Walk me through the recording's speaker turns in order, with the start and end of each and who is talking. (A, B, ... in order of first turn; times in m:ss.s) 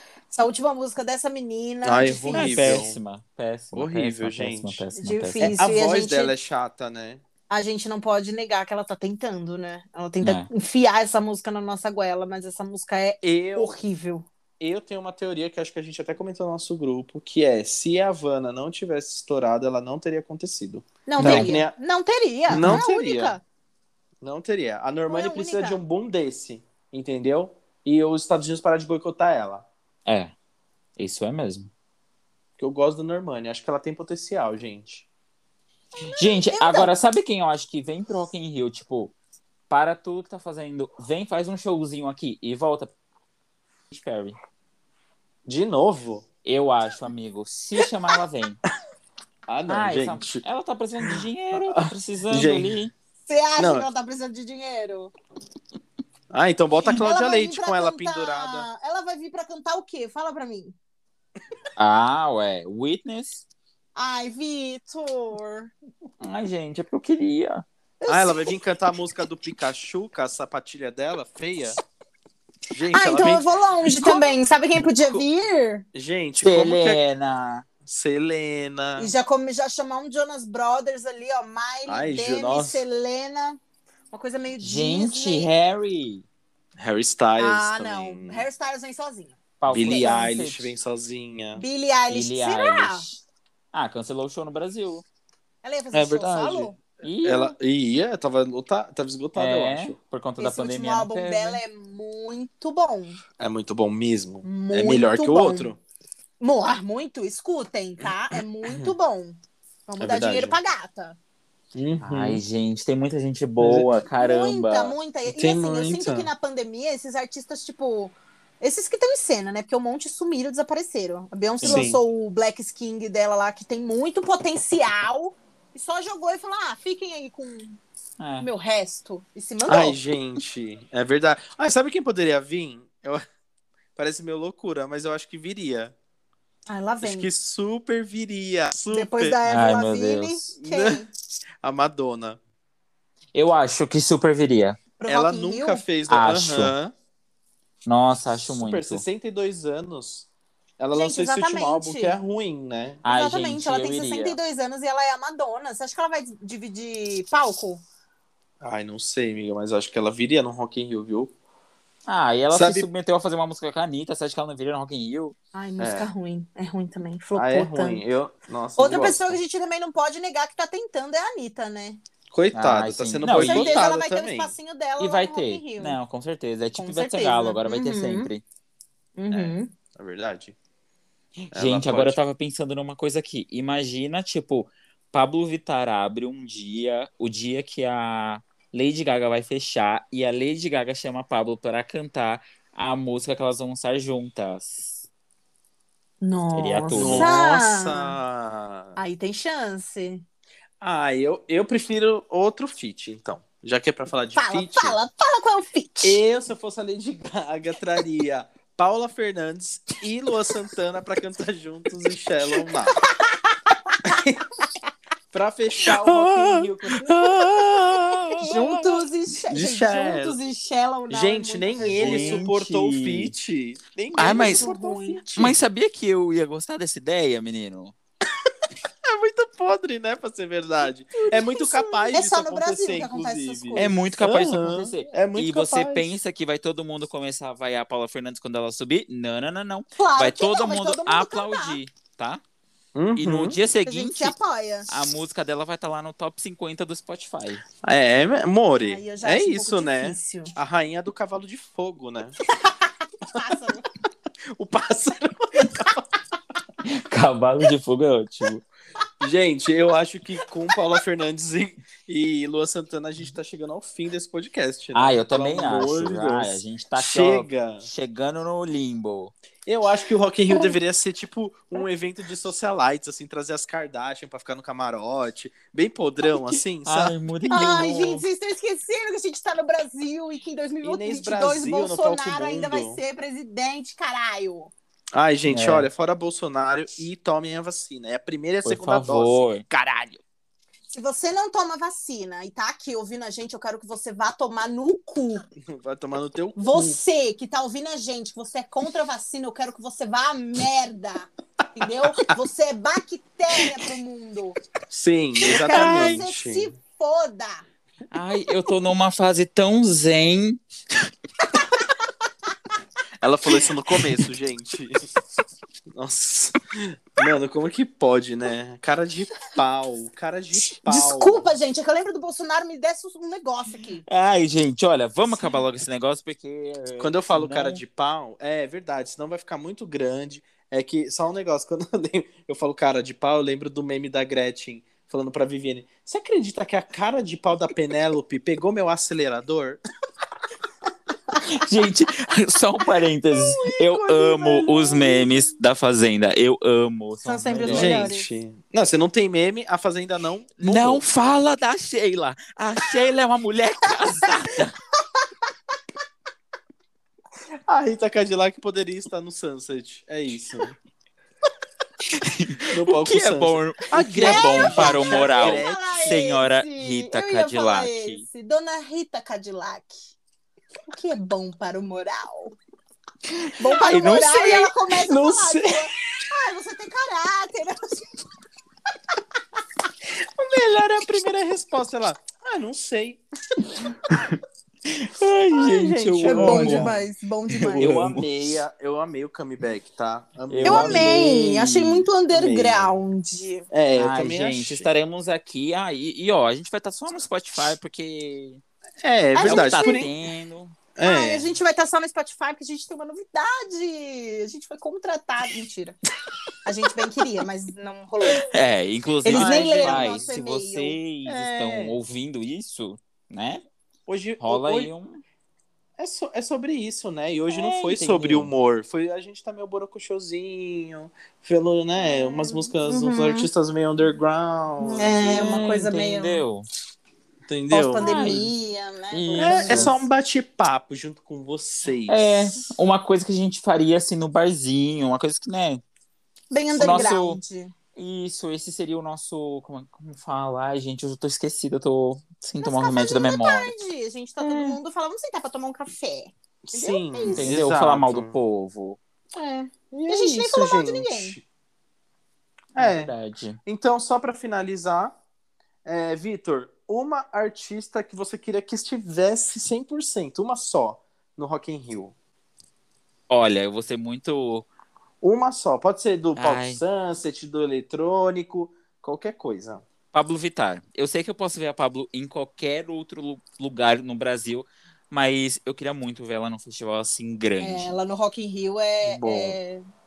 0:00.3-0:02.8 A
0:01.8-0:03.0 B
0:02.3-0:05.6 C
0:03.7-0:04.8 B
0:05.0-0:06.3 A
0:05.4-0:07.2 B
0:07.5-0:14.3 A
0:10.2-0:10.5 C
0:13.2-0:13.8 B
0:14.6-0:21.8 B
0:21.1-0:23.4 A
0:21.2-0:21.6 C
0:22.5-0:23.4 B
0:22.6-0:22.8 C
0:24.2-0:29.7 B
0:25.1-0:25.8 A
0:30.1-0:30.3 C
0:31.0-0:31.7 C
0:32.6-0:35.1 B
0:36.0-0:36.9 A
0:36.1-0:39.1 C
0:39.7-0:42.9 C
0:43.9-0:44.4 C
0:45.5-0:46.3 B
0:46.4-0:48.6 C
0:49.5-0:50.4 B
0:49.7-0:52.9 C
0:51.0-0:52.7 B
0:53.3-0:55.1 A
0:53.6-0:53.9 B
0:56.3-0:58.7 B
0:56.8-1:00.8 A
1:01.8-1:03.4 C
1:04.0-1:05.7 A
1:06.2-1:07.6 C
1:08.0-1:08.6 A
1:08.1-1:11.8 B
1:12.7-1:14.4 B
1:12.9-1:15.8 A
1:15.9-1:17.0 B
1:16.4-1:17.7 C
1:17.8-1:19.1 B
1:19.0-1:23.6 A
1:21.9-1:22.8 B
1:24.1-1:25.5 A
1:24.6-1:26.2 C
1:26.8-1:28.5 B
1:27.4-1:30.2 A
1:29.6-1:30.7 C
1:29.7-1:31.6 B
1:31.6-1:33.1 A
1:32.1-1:33.2 C
1:33.7-1:35.0 C
1:35.6-1:36.8 A
1:35.9-1:40.0 B
1:37.0-1:37.6 C
1:39.4-1:41.6 C
1:40.4-1:43.2 A
1:43.4-1:45.8 B
1:44.4-1:45.7 A
1:46.4-1:51.2 A
1:50.0-1:50.6 B
1:51.7-1:52.4 B
1:52.0-1:55.0 C
1:53.6-1:53.9 B
1:54.2-2:07.8 A
1:55.3-1:56.3 B
2:01.6-2:01.9 C
2:01.6-2:02.0 B
2:08.2-2:08.5 C
2:08.4-2:10.0 A
2:09.7-2:13.2 B
2:14.0-2:15.9 B
2:16.7-2:17.3 A
2:17.0-2:19.4 B
2:18.9-2:21.1 A
2:19.5-2:20.5 C
2:20.6-2:21.1 B
2:21.6-2:22.4 B
2:23.3-2:24.8 C
2:25.0-2:25.8 A
2:25.1-2:26.9 B
2:26.1-2:26.8 C
2:27.9-2:29.0 C
2:28.5-2:30.3 B
2:30.8-2:33.0 B
2:31.0-2:32.2 A
2:33.0-2:34.4 C
2:33.0-2:37.8 A
2:38.6-2:41.3 B
2:42.1-2:45.4 C
2:42.5-2:42.9 B
2:45.5-2:48.0 A
2:45.8-2:46.1 B
2:47.4-2:49.4 B
2:48.8-2:52.0 A
2:52.3-2:54.6 B
2:52.5-2:53.9 C
2:53.4-2:56.0 A
2:55.0-2:58.4 C
2:56.8-2:58.3 A
2:59.2-2:59.7 A
2:59.3-3:00.6 B
3:01.5-3:15.1 C
3:01.5-3:02.2 B
3:16.2-3:18.2 A
3:16.6-3:17.3 C
3:16.9-3:19.0 B
3:19.0-3:20.2 A
3:20.8-3:25.0 B
3:24.4-3:26.2 A
3:26.0-3:33.0 B
3:32.7-3:34.0 A
3:34.0-3:34.4 B
3:35.3-3:40.4 B
3:35.9-3:37.7 A
3:38.4-3:42.5 A
3:41.1-3:45.5 B
3:41.8-3:43.3 C
3:44.2-3:44.7 C
3:44.2-3:45.5 A
3:45.4-3:47.9 C
3:49.0-3:56.1 B
3:51.2-3:54.0 A
3:53.8-4:02.4 C
4:00.0-4:01.8 A
4:03.0-4:03.6 B
4:03.2-4:04.4 C
4:03.9-4:04.9 A
4:04.9-4:07.6 C
4:07.8-4:12.4 B
4:08.8-4:10.6 A
4:12.6-4:13.9 A
4:14.5-4:16.0 B
4:16.8-4:18.6 C
4:19.2-4:27.9 B
4:24.9-4:29.3 C
4:29.7-4:37.7 B
4:36.8-4:38.2 C
4:37.5-4:44.7 A
4:40.8-4:43.0 B
4:45.1-4:50.2 B
4:45.5-4:45.9 C
4:48.6-4:49.6 C
4:50.9-4:55.4 A
4:55.6-4:57.0 B
4:56.6-5:04.6 A
5:04.9-5:06.7 B
5:05.6-5:06.2 C
5:05.6-5:07.6 A
5:08.1-5:10.6 C
5:13.2-5:15.0 B
5:15.9-5:21.5 B
5:20.6-5:24.0 A
5:24.1-5:27.8 C
5:27.0-5:39.8 B
5:41.4-5:48.1 C
5:43.3-5:45.5 B
5:47.2-5:48.3 A
5:47.6-5:51.0 B
5:50.6-5:54.8 C
5:57.7-6:00.8 B
6:02.1-6:08.2 C
6:02.6-6:06.3 B
6:04.2-6:10.0 A
6:10.9-6:12.6 A
6:13.3-6:14.7 C
6:13.6-6:18.1 A
6:15.0-6:15.9 B
6:20.1-6:23.9 B
6:24.1-6:27.0 C
6:25.5-6:28.0 A
6:26.2-6:27.0 B
6:27.5-6:28.6 C
6:27.7-6:31.3 B
6:30.5-6:32.1 C
6:30.6-6:33.7 A
6:32.3-6:33.0 B
6:33.7-6:34.9 B
6:34.0-6:38.6 C
6:39.0-6:40.1 B
6:39.4-6:40.1 A
6:39.4-6:40.8 C
6:41.0-6:41.5 B
6:41.0-6:46.0 A
6:46.6-6:48.5 A
6:48.5-6:53.6 C
6:49.2-6:51.0 A
6:49.3-6:50.3 B
6:51.2-6:52.0 B
6:54.1-6:54.9 B
6:54.4-6:55.2 C
6:56.0-7:05.6 B
6:57.5-6:58.5 C
7:02.0-7:03.5 A
7:04.8-7:06.4 A
7:05.2-7:06.7 C
7:07.5-7:08.4 B
7:07.7-7:10.1 A
7:08.0-7:08.5 C
7:09.1-7:10.0 C
7:09.4-7:12.4 B
7:12.1-7:15.8 C
7:16.5-7:17.7 A
7:16.8-7:17.4 C
7:16.8-7:17.0 B
7:18.0-7:23.8 C
7:22.6-7:27.5 A
7:24.4-7:24.8 C
7:26.7-7:28.4 B
7:27.4-7:29.0 C
7:29.3-7:31.4 A
7:29.9-7:31.4 B
7:32.8-7:33.1 B
7:32.8-7:33.6 C
7:33.7-7:35.2 B
7:35.8-7:42.1 B
7:43.3-7:44.7 C
7:45.2-7:49.8 B
7:46.4-7:46.8 C
7:50.1-7:58.0 C
7:57.6-7:59.8 A
7:59.0-7:59.6 B